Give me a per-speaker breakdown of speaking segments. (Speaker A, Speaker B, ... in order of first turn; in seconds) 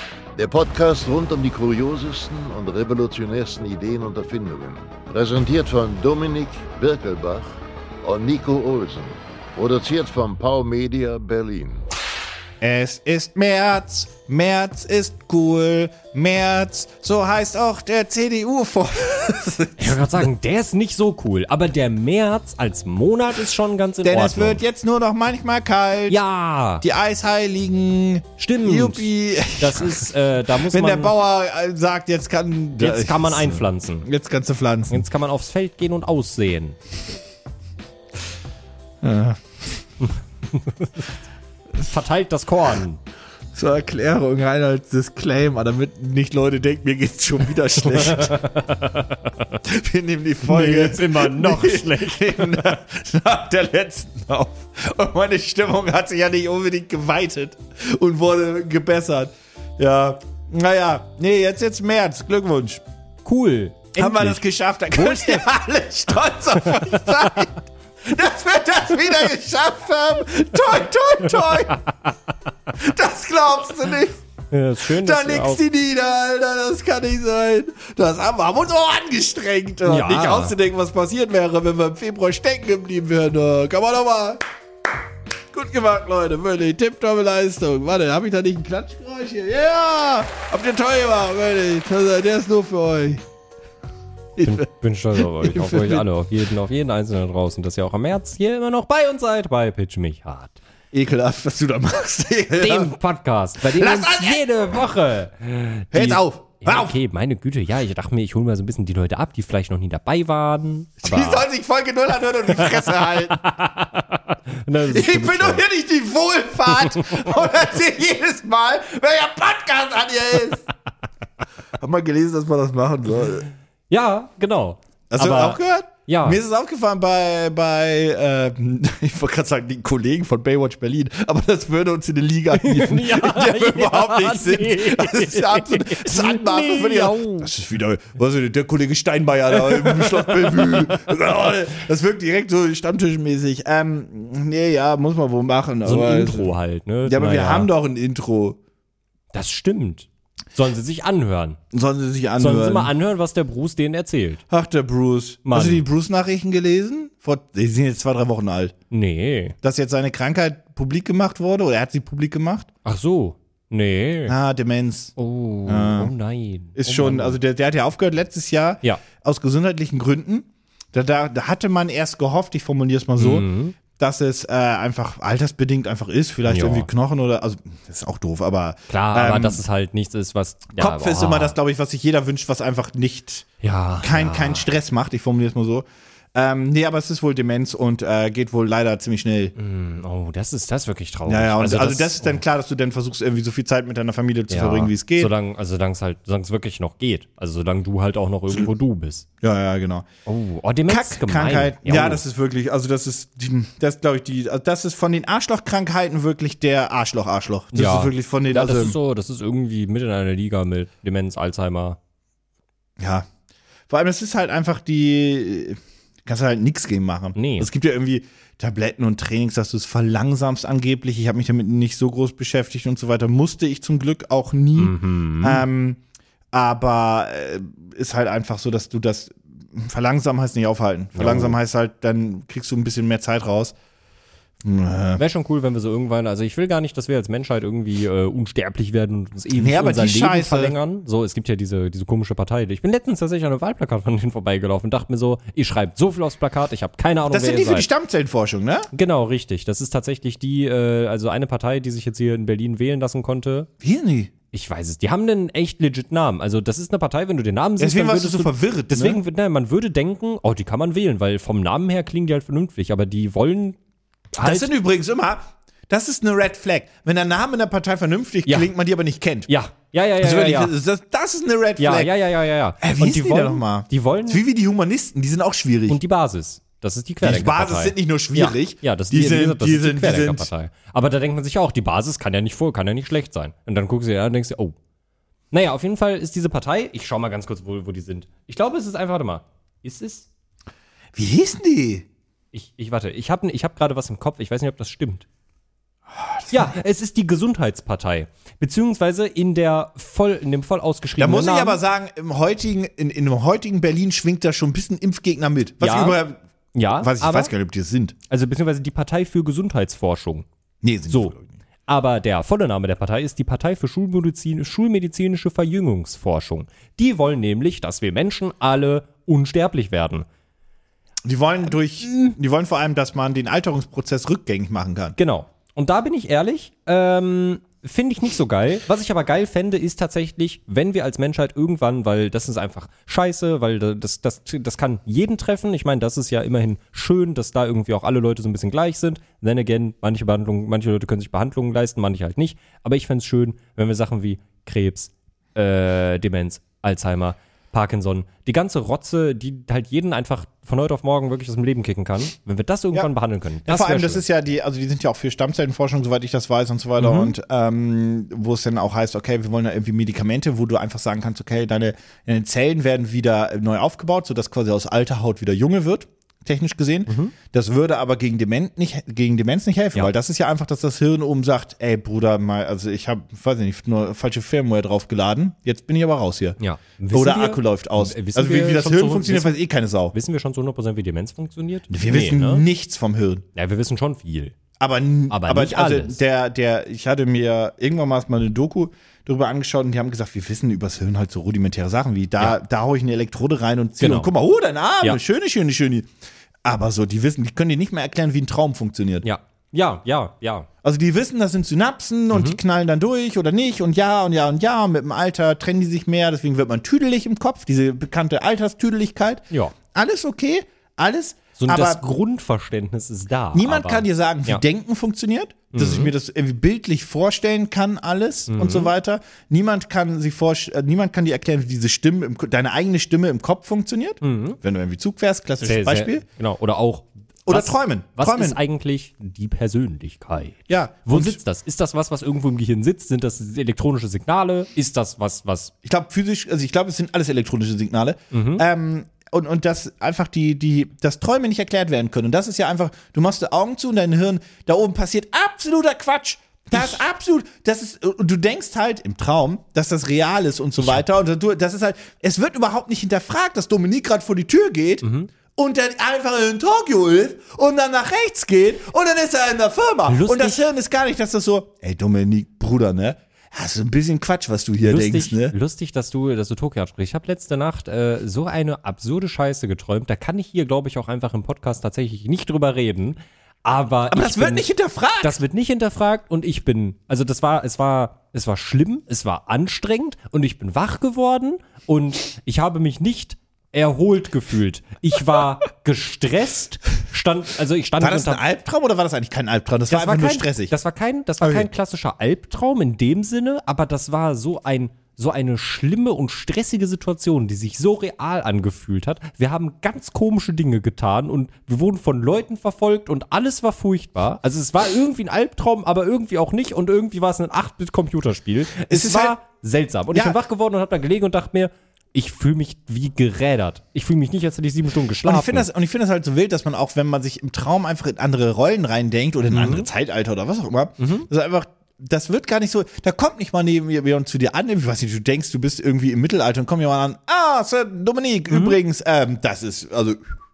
Speaker A: 0.4-11.8
Speaker B: 12.6-20.3, 24.0-26.2, 26.8-35.0, 39.0-39.8, 43.5-48.4, 49.6-62.8, 64.0-71.8, 72.7-74.2, 74.9-84.4, 85.5-93.2, 94.4-94.7, 95.2-96.1, 100.9-102.9, 103.6-104.4, 105.9-107.0, 111.0-113.4, 114.8-120.7, 121.8-123.5, 125.1-146.5, 147.0-148.6, 151.7-152.9, 154.5-158.8, 159.6-162.7, 164.3-165.1, 165.7-166.1, 166.8-179.6, 180.8-183.5, 184.0-189.5, 191.3-195.3, 199.4-200.1, 200.9-209.0, 213.0-213.3, 213.9-226.0, 226.5-233.8, 234.6-235.2, 239.6-240.8, 247.3-248.9, 253.8-254.3, 257.8-259.2, 264.4-269.5, 270.2-272.1, 272.8-276.0, 277.2-280.5, 291.1-292.1, 296.1-296.8, 301.2-306.4, 307.0-308.2, 310.8-311.5, 321.2-325.2, 353.7-376.6, 377.1-380.1, 381.9-383.4, 384.8-396.1, 396.6-399.3, 400.8-412.1, 413.5-426.2, 427.5-428.6, 430.7-431.4, 435.8-465.6, 474.1-475.4, 488.0-490.7, 491.4-491.7, 508.9-509.4, 510.1-510.4, 515.2-530.4
Speaker C: 19.8-24.6, 26.1-26.9, 28.4-31.1, 32.8-34.1, 34.9-36.8, 40.5-41.1, 41.8-43.0, 47.9-49.6, 50.5-52.8, 63.2-64.4, 64.9-65.5, 66.9-67.4, 71.5-71.8, 74.5-75.6, 79.8-80.5, 94.4-100.6, 102.5-111.5, 112.5-115.6, 116.8-117.3, 123.9-126.4, 132.6-137.5, 139.5-141.0, 145.8-147.7, 149.3-151.6, 152.4-154.4, 155.4-155.8, 158.9-159.6, 162.8-164.3, 165.2-167.4, 173.2-173.8, 176.5-176.9, 178.9-181.6, 183.6-184.7, 189.6-192.4, 194.5-199.3, 200.3-202.2, 207.7-212.0, 217.3-217.7, 224.8-225.7, 231.2-231.6, 235.2-247.9, 248.9-253.7, 254.5-263.8, 264.3-264.7, 269.5-270.7, 271.8-274.4, 275.9-284.8, 285.5-290.3, 292.5-295.3, 296.5-301.8, 305.8-306.2, 306.7-307.5, 308.3-310.5, 311.9-320.3, 322.0-322.4, 325.2-354.2, 357.0-357.3, 367.1-367.4, 376.6-379.6, 380.1-382.6, 383.6-384.6, 385.3-386.2, 394.0-394.3, 399.2-400.7, 402.3-402.6, 409.5-409.8, 411.6-414.6, 415.7-416.1, 418.5-418.9, 424.2-424.6, 425.6-435.7, 438.3-438.6, 446.7-447.0, 450.8-451.1, 455.0-455.3, 460.1-460.7, 464.8-474.7, 475.2-488.4, 489.9-515.7, 519.5-519.9, 521.0-521.3, 528.5-528.8